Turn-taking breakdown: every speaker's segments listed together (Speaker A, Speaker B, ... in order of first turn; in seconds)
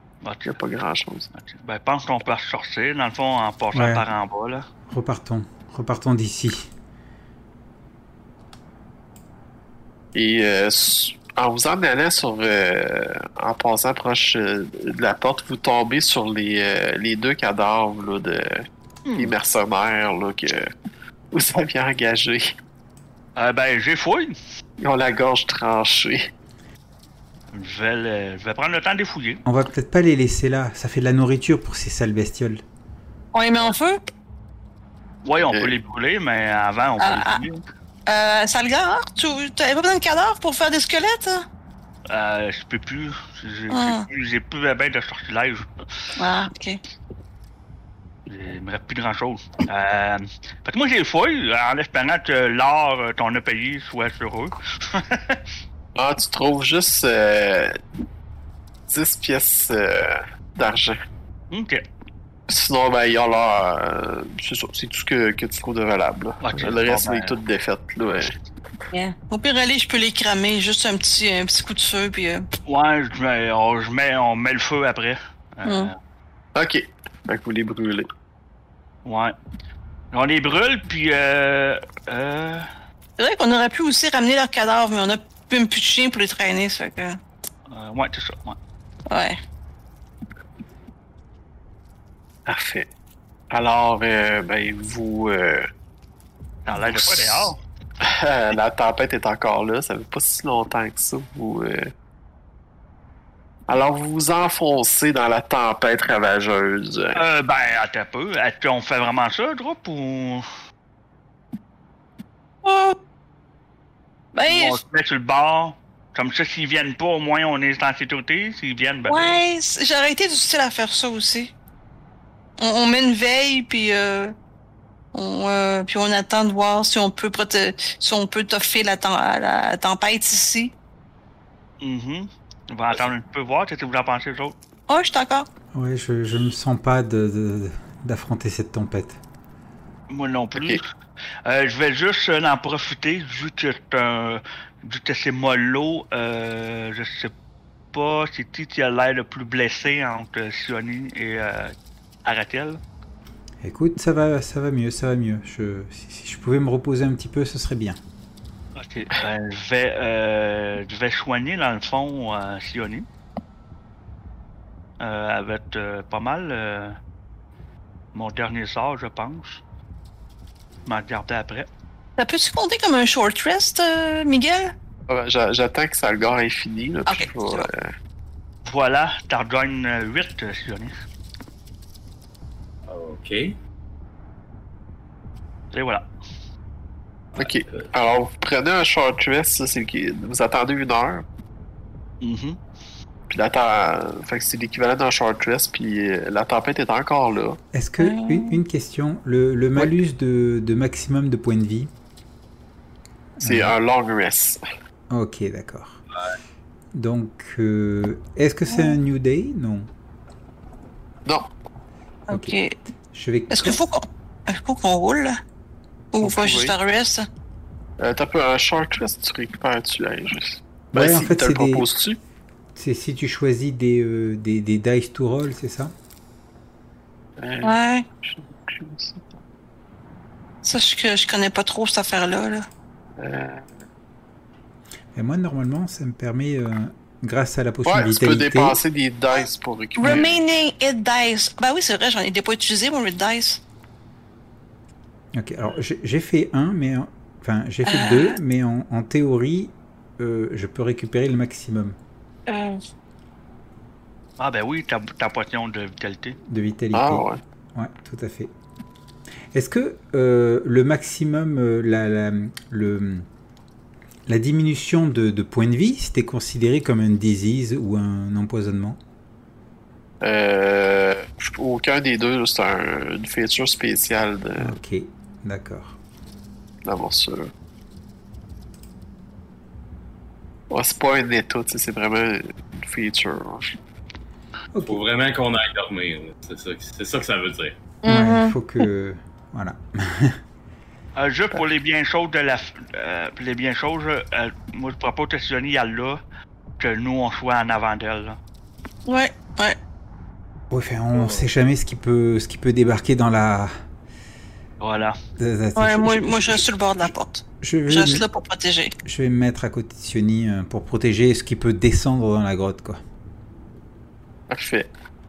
Speaker A: 0.2-0.6, 1.3-4.7, 19.1-19.3, 23.4-24.4, 27.5-29.4, 35.2-37.6, 42.1-45.7, 48.3-55.4, 61.5-61.8, 66.4-67.4, 72.7-75.9, 79.0-79.3, 80.1-82.7, 87.7-88.6, 96.7-97.6, 107.1-110.5, 114.5-119.4, 131.8-134.6, 140.1-140.9, 141.4-147.3, 147.9-152.8, 158.8-163.1, 165.0-167.0, 168.1-169.6, 170.9-171.7, 178.7-180.9, 185.7-186.1, 192.2-192.6, 254.4-256.4, 291.2-296.2, 296.8-298.4, 304.8-305.2
Speaker B: 0.5-1.3, 10.2-18.7, 19.2-20.7, 21.3-22.5, 24.8-26.3, 56.0-57.8, 58.9-61.0, 62.5-68.3, 76.5-78.1, 92.5-92.9, 93.5-95.7, 96.7-101.9, 103.7-107.2, 140.6-140.8, 175.1-177.9, 187.4-191.2, 193.3-197.6, 203.4-204.6, 216.2-216.8, 218.0-222.2, 227.4-229.4, 233.2-233.7, 237.9-240.4, 256.9-257.4, 270.2-274.7, 276.9-277.5, 280.7-283.8, 314.5-314.9
Speaker C: 3.7-4.0, 4.9-6.7, 29.4-32.6, 135.7-139.2, 153.6-158.0, 197.7-201.9, 203.4-203.7, 205.1-206.0, 206.9-209.9, 212.3-212.6, 213.1-213.8, 220.9-221.9, 222.8-225.9, 235.2-238.8, 245.3-252.0, 256.5-258.5, 259.5-263.3, 264.3-269.0, 274.6-276.0, 284.7-285.0, 288.1-290.4, 300.7-303.7, 305.4-307.1, 307.6-308.2, 309.1-313.0
Speaker D: 33.3-34.1, 37.0-37.4, 38.1-41.5, 43.7-44.1, 46.2-46.8, 68.9-72.5, 75.7-75.9, 83.2-87.2, 89.1-89.4, 112.6-113.0, 114.3-114.8, 119.1-121.5, 122.6-124.3, 125.1-130.7, 134.9-135.5, 172.2-174.7, 177.1-177.7, 198.0-198.6, 208.7-209.0, 212.3-212.7, 213.5-215.4, 216.1-217.3, 227.6-228.1, 230.6-232.7, 240.0-243.6, 247.9-248.4, 252.5-252.8, 288.0-288.6, 299.1-299.8, 305.8-308.9
Speaker E: 182.9-183.6, 187.4-187.8, 284.8-287.8